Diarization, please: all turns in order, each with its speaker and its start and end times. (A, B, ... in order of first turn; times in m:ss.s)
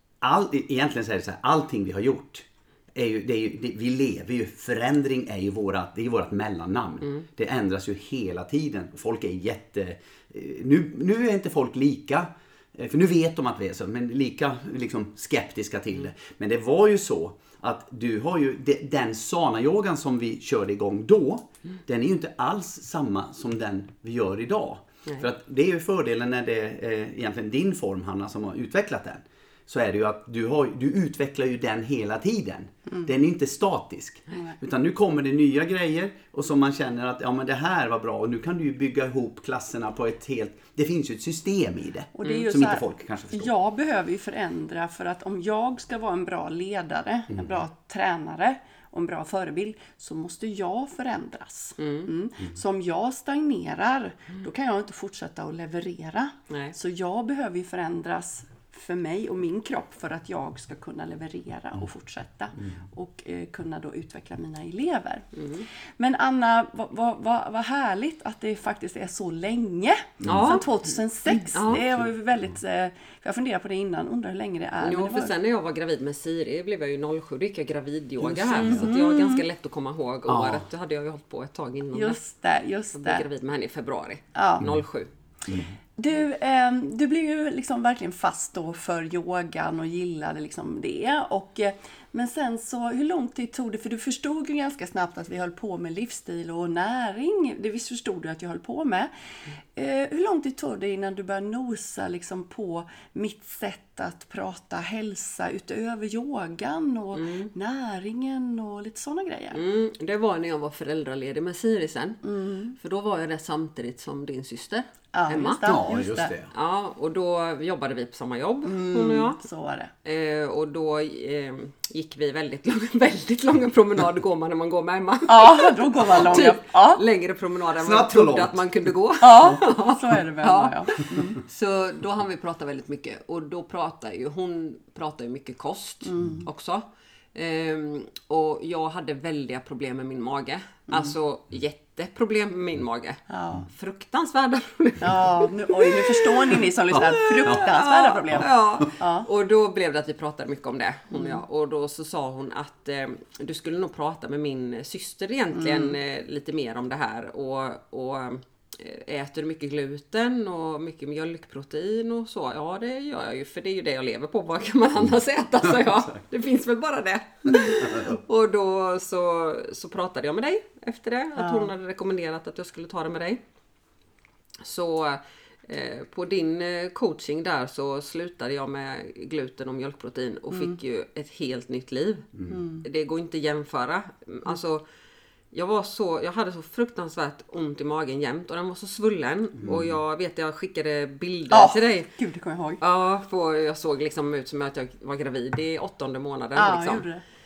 0:00.2-0:43.5 A
0:42.2-1:05.3 B
0:42.2-0:42.5 C
0:51.8-0:52.1 C
0:56.5-0:56.8 C
1:05.4-1:05.7 C
1:06.0-1:15.3 B
1:10.2-1:10.6 A
1:10.2-1:10.6 C
1:11.5-1:11.8 C
1:11.7-1:12.1 A
1:14.8-1:22.2 C
1:18.3-1:18.9 A
1:18.4-1:19.4 B
1:20.3-1:20.7 A
1:21.9-1:23.3 B
1:23.0-1:25.1 C
1:24.4-1:24.7 B
1:25.5-1:25.8 A
1:26.0-1:39.1 B
1:39.8-1:49.6 B
1:47.2-1:47.5 C
1:49.5-1:52.2 C
1:52.2-1:52.8 B
1:52.8-1:55.7 C
1:55.1-1:56.3 B
1:55.6-1:56.5 A
1:56.5-1:59.4 C
1:58.6-1:59.9 B
2:00.0-2:26.6 C
2:05.3-2:07.0 B
2:07.8-2:09.6 A
2:09.2-2:11.4 B
2:16.0-2:16.5 B
2:23.3-2:23.6 B
2:25.0-2:29.3 B
2:26.9-2:27.6 A
2:27.1-2:53.4 C
2:28.3-2:28.8 A
2:31.1-2:31.4 B
2:35.6-2:36.0 B
2:45.8-2:46.1 A
2:47.6-2:48.2 A
2:51.4-2:51.7 B
2:54.6-3:04.8 C
3:02.5-3:02.8 B
3:05.5-3:12.1 C
3:09.6-3:10.0 A
3:11.5-3:12.8 B
3:12.8-3:17.1 C
3:16.6-3:17.2 B